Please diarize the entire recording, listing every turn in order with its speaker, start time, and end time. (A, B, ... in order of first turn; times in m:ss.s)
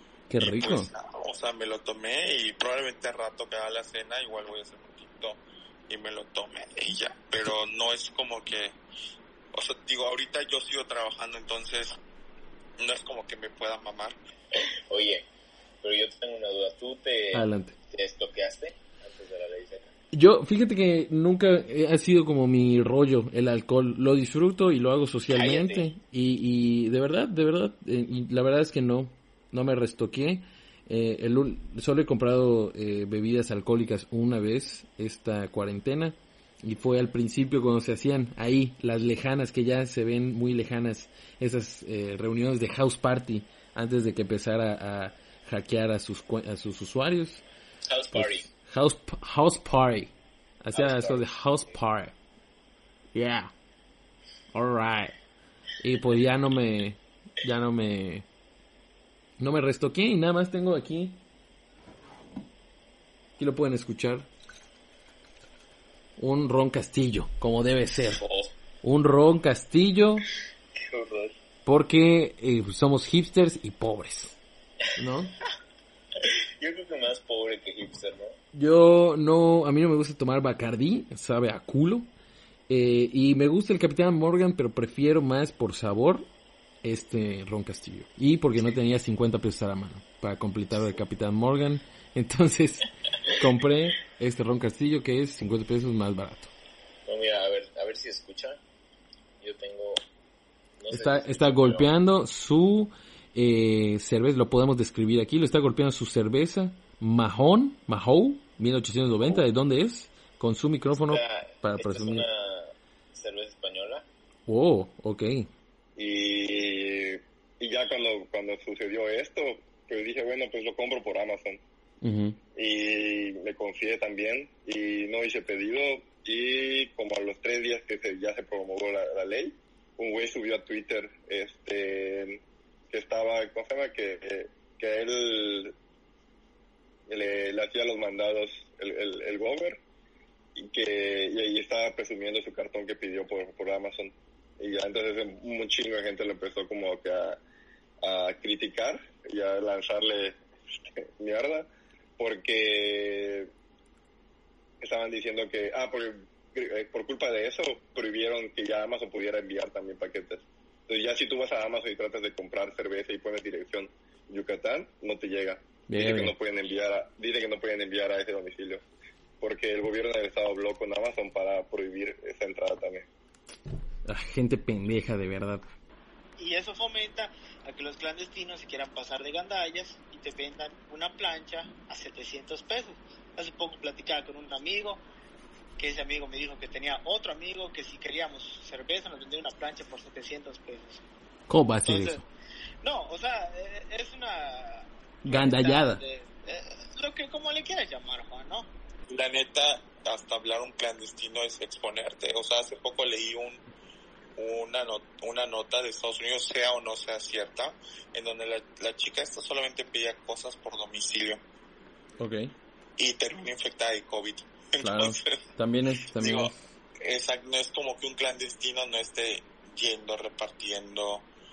0:00.3-0:00.9 A
0:00.4-0:08.8 B
0:09.5-0:12.0 B
0:12.8-0:14.2 B
0:14.9-0:15.2 C
0:15.8-0:19.9 C
0:17.3-0:17.8 A
0:20.1-0:47.4 A
0:25.3-0:25.9 C
0:47.9-0:48.5 C
0:48.1-0:52.1 A
0:50.7-0:51.3 C
0:53.1-0:53.5 A
0:54.5-0:55.1 A
0:55.8-0:58.2 A
0:59.4-1:01.2 A
1:03.4-1:04.3 A
1:06.2-1:08.2 A
1:08.2-1:08.5 C
1:08.8-1:10.2 A
1:10.8-1:11.4 C
1:11.6-1:14.4 A
1:15.0-1:15.3 A
1:16.2-1:18.4 C
1:18.5-1:22.1 A
1:22.7-1:26.3 A
1:26.8-1:36.5 A
1:37.0-1:38.6 C
1:39.4-1:40.0 C
1:40.8-1:41.9 C
1:40.9-1:52.3 A
1:51.0-1:54.0 C
1:54.5-1:55.5 A
1:56.0-2:01.6 D
2:02.0-2:02.4 A
2:02.5-2:15.7 D
2:17.1-2:19.8 D
2:20.5-2:27.4 D
2:28.0-2:30.4 D
2:31.0-2:33.5 D
2:34.8-2:48.8 D
2:45.9-2:46.3 A
2:49.4-2:53.1 D
2:54.0-2:55.7 A
2:56.4-3:05.0 E
3:05.8-3:11.0 E
3:11.5-3:12.2 A
3:11.8-3:12.2 E
3:12.8-3:18.7 E
3:15.2-3:16.0 A
3:19.1-3:23.6 B
3:24.4-3:31.4 B
3:32.2-3:32.5 A
3:33.0-3:35.3 B
3:34.8-3:36.6 A
3:36.2-3:41.2 B